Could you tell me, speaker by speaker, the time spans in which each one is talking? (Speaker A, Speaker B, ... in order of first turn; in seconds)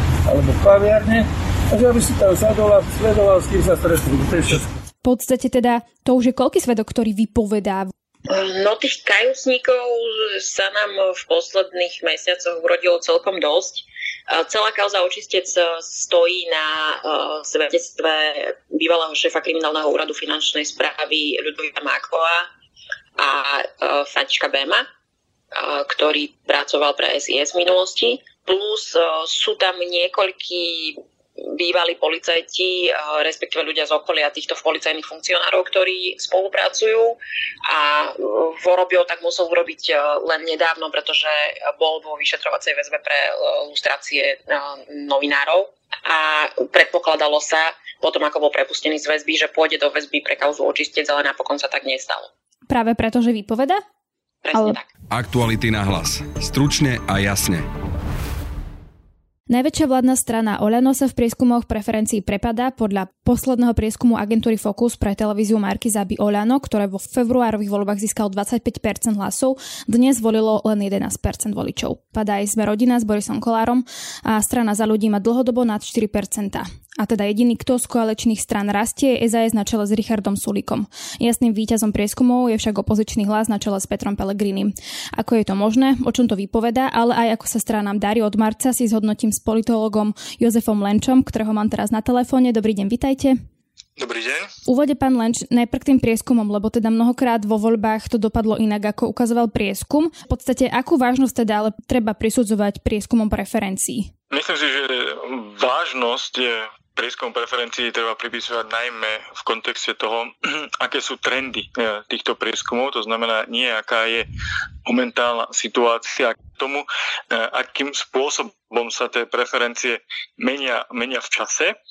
Speaker A: 0.2-4.7
Speaker B: 5.0-7.9, 52.7-53.8, 54.5-54.8, 59.5-93.3, 94.7-104.1
Speaker C: 8.3-22.5, 23.2-24.9, 25.5-52.3, 54.4-54.9
Speaker D: 55.1-57.6
Speaker E: 94.0-94.5, 104.3-114.3, 114.8-121.8